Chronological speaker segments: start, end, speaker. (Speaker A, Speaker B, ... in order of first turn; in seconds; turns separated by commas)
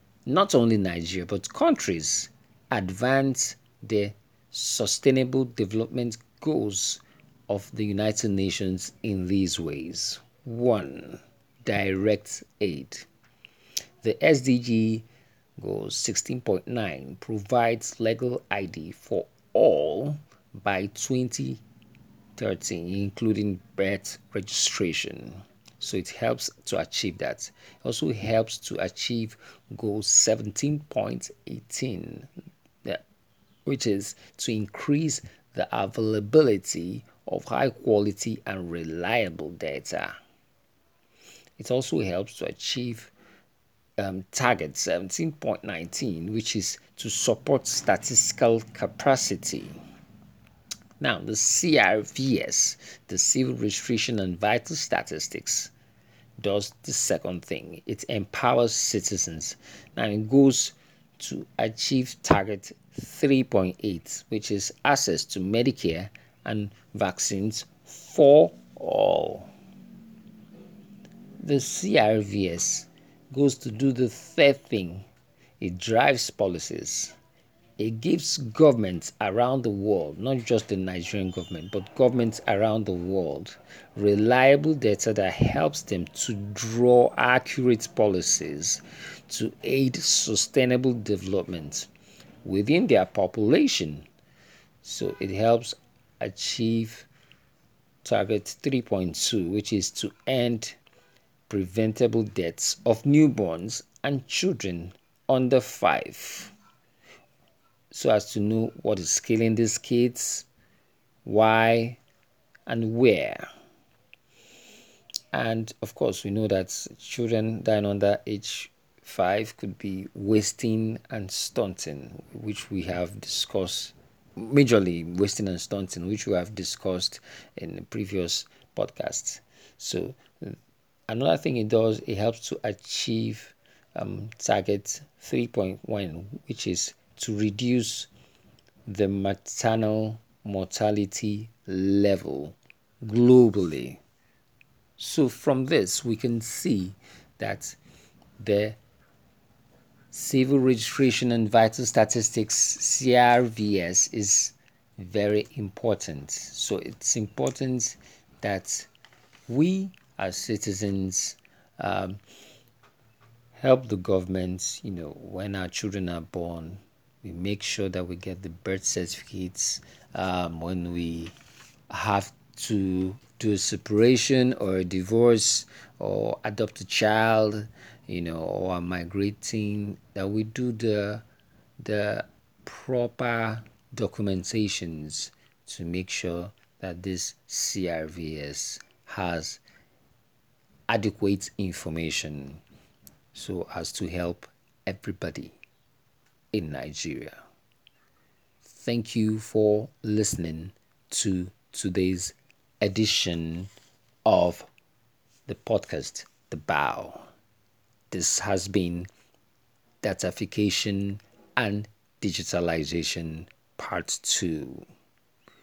Speaker A: 0.2-13.1, Speaker A: 14.0-15.1, Speaker A: 15.6-21.6, Speaker A: 22.4-32.3, Speaker A: 33.6-40.2, Speaker A: 41.6-43.1, Speaker A: 44.0-49.8, Speaker A: 51.0-55.7, Speaker A: 56.4-69.5, Speaker A: 71.4-75.1, Speaker A: 75.6-77.2, Speaker A: 77.8-91.9, Speaker A: 92.4-94.1, Speaker A: 94.8-97.1, Speaker A: 98.0-100.8, Speaker A: 101.5-106.5, Speaker A: 107.9-110.5, Speaker A: 111.2-112.0, Speaker A: 112.7-113.5, Speaker A: 115.3-130.6, Speaker A: 131.1-138.1, Speaker A: 138.9-144.0, Speaker A: 145.0-147.8, Speaker A: 148.4-148.8, Speaker A: 150.1-158.9, Speaker A: 159.5-162.2, Speaker A: 163.6-171.4, Speaker A: 171.9-181.2, Speaker A: 181.8-189.6, Speaker A: 190.9-192.6, Speaker A: 193.3-195.6, Speaker A: 196.5-197.4, Speaker A: 198.6-203.7, Speaker A: 204.3-204.7, Speaker A: 205.4-207.3, Speaker A: 208.1-209.1, Speaker A: 210.0-214.9